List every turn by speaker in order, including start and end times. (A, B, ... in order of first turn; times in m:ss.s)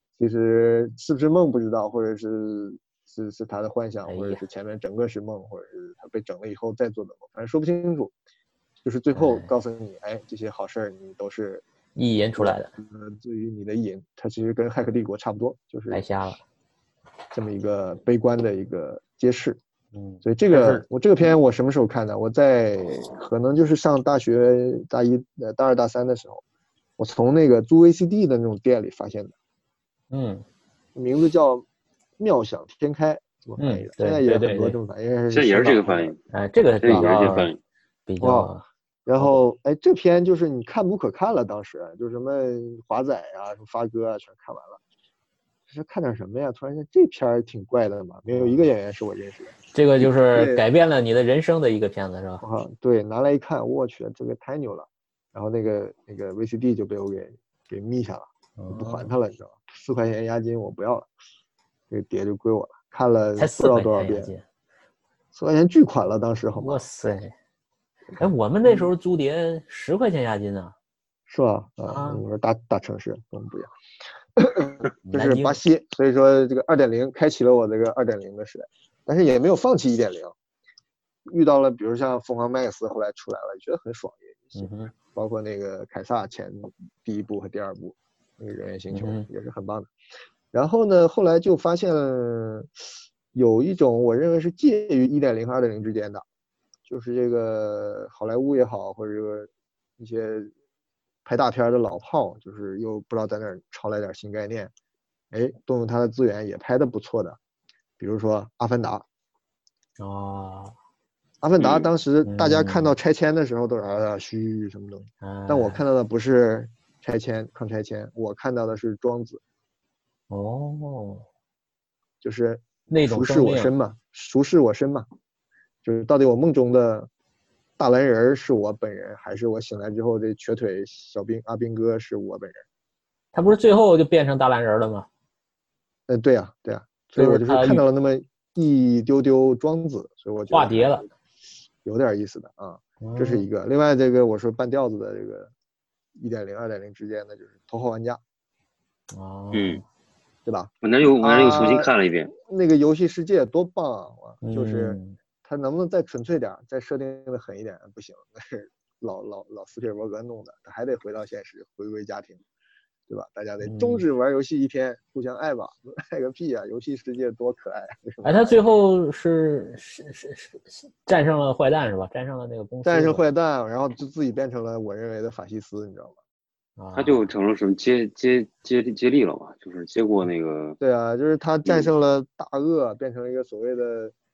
0:00.2-0:08.1 A
0:04.1-0:04.4 B
0:08.8-0:11.6 A
0:09.1-0:09.5 B
0:12.0-0:12.7 B
0:12.4-0:16.0 A
0:15.9-0:16.4 B
0:17.3-0:19.6 A
0:19.9-0:20.8 B
0:20.2-0:26.4 A
0:27.0-0:29.3 A
0:30.1-0:30.4 B
0:30.9-0:31.6 A
0:32.2-0:36.1 A
0:33.6-0:34.8 B
0:35.3-0:36.2 C
0:36.3-0:37.5 B
0:36.8-0:37.6 C
0:38.1-0:38.6 B
0:38.2-0:38.5 A
0:39.0-0:44.8 A
0:45.7-0:50.6 A
0:48.3-0:48.6 B
0:49.7-0:52.4 B
0:52.4-1:01.1 A
0:58.6-0:59.1 B
1:01.9-1:04.3 A
1:03.4-1:04.4 B
1:05.3-1:06.8 A
1:06.6-1:07.3 B
1:08.2-1:10.7 B
1:11.3-1:13.7 A
1:11.8-1:12.2 B
1:14.4-1:20.3 A
1:15.1-1:15.6 B
1:21.2-1:29.9 A
1:24.5-1:24.9 B
1:28.9-1:29.3 B
1:30.5-1:32.8 A
1:33.3-1:36.2 A
1:36.8-1:40.5 A
1:41.2-1:44.7 A
1:45.3-1:47.4 A
1:48.0-1:49.0 A
1:50.0-1:50.7 B
1:51.4-1:59.4 A
1:51.6-1:51.9 C
1:52.2-1:52.9 B
1:55.2-1:55.8 B
2:00.3-2:01.2 B
2:02.2-2:05.1 A
2:02.9-2:03.7 B
2:05.8-2:07.1 A
2:07.8-2:12.6 A
2:13.3-2:15.1 B
2:16.1-2:21.1 A
2:17.2-2:17.8 B
2:20.5-2:21.0 B
2:21.8-2:25.5 A
2:23.0-2:23.5 B
2:26.2-2:28.2 A
2:29.1-2:29.8 B
2:29.5-2:29.8 C
2:30.4-2:42.4 A
2:30.8-2:32.3 C
2:34.4-2:35.2 B
2:43.1-2:48.6 A
2:43.6-2:44.0 B
2:48.2-2:53.2 B
2:52.8-2:56.2 A
2:56.8-2:57.3 B
2:56.9-3:00.8 C
3:00.8-3:04.1 A